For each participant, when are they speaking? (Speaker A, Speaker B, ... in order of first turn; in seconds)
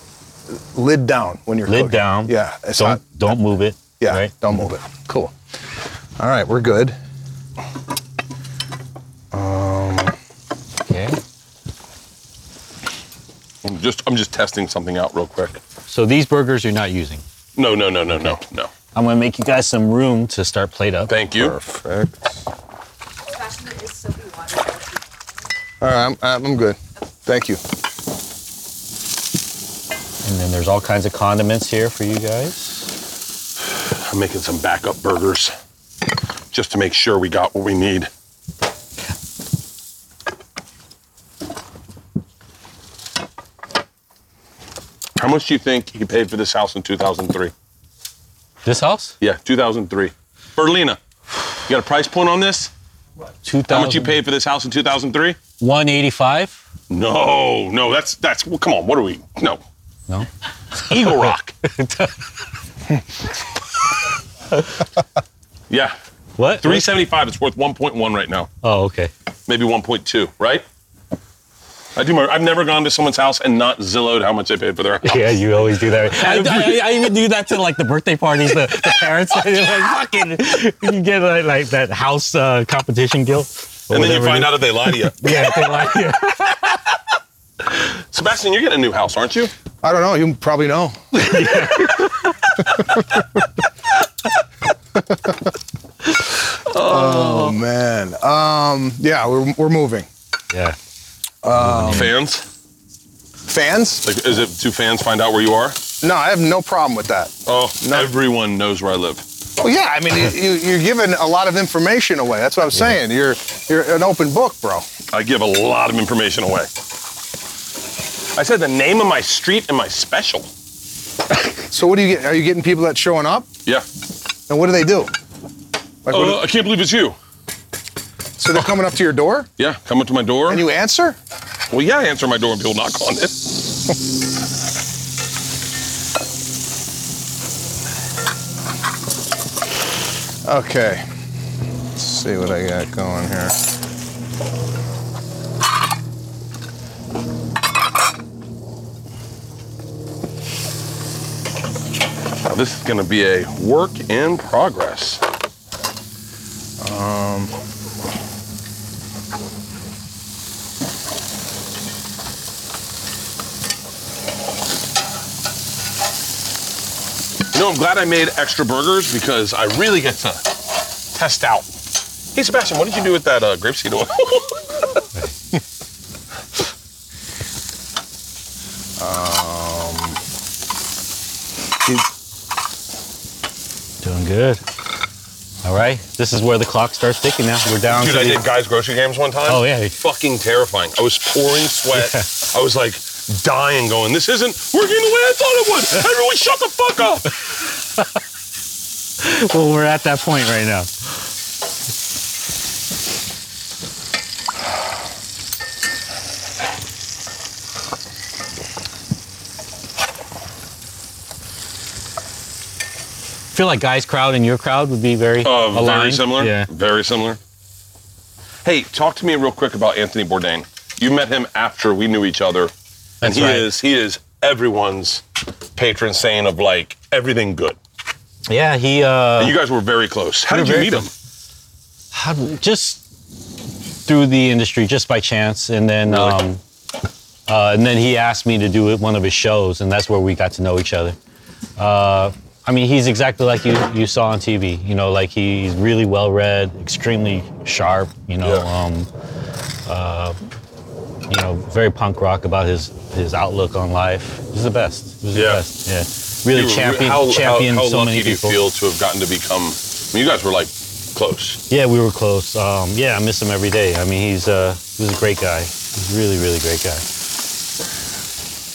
Speaker A: 0.5-3.3, 4.0-5.3, 6.2-7.0, 9.3-10.2, 21.3-22.3, 25.8-27.6, 89.8-91.4, 96.8-100.1, 101.4-102.1, 103.5-104.0, 106.0-108.1, 109.6-114.8, 121.7-123.5, 124.5-125.1, 126.0-126.4, 128.4-129.5, 130.5-131.2, 140.4-141.0, 141.9-143.6, 156.8-157.5, 179.0-180.2
Speaker B: 1.7-4.3, 10.8-11.2, 15.9-17.2, 18.1-18.4, 18.9-21.1, 30.2-32.9, 48.6-49.1, 53.4-54.1, 55.6-56.6, 60.8-62.3, 66.4-66.9, 68.6-69.1, 75.0-86.9, 91.1-93.0, 101.5-102.1, 184.0-184.6, 185.6-188.4, 189.5-189.9, 191.9-192.3, 199.2-200.9, 213.5-216.7, 223.2-223.7, 228.5-229.6, 230.5-231.1, 232.1-233.0, 234.1-236.6, 237.5-241.2, 241.8-249.1, 249.8-250.4, 251.3-258.6, 261.7-267.0
Speaker C: 13.6-15.6, 17.6-18.7, 21.1-21.6, 33.7-35.5, 36.5-38.1, 45.2-47.5, 49.2-51.0, 51.7-52.7, 53.7-55.4, 56.9-59.6, 60.9-61.5, 65.7-66.0, 66.6-68.5, 69.5-70.6, 72.0-77.0, 83.9-85.5, 88.1-89.5, 96.6-97.6, 101.8-102.5, 104.0-105.8, 107.5-109.2, 115.1-116.7, 118.3-120.5, 126.1-127.2, 129.6-130.6, 131.7-133.5, 152.4-155.2, 167.5-171.7, 172.3-175.0, 187.9-197.3, 215.4-217.4, 218.6-225.2, 225.7-227.8, 229.4-231.1, 236.1-236.4, 248.4-248.7, 255.3-255.6, 256.5-261.6
Speaker D: 23.3-25.5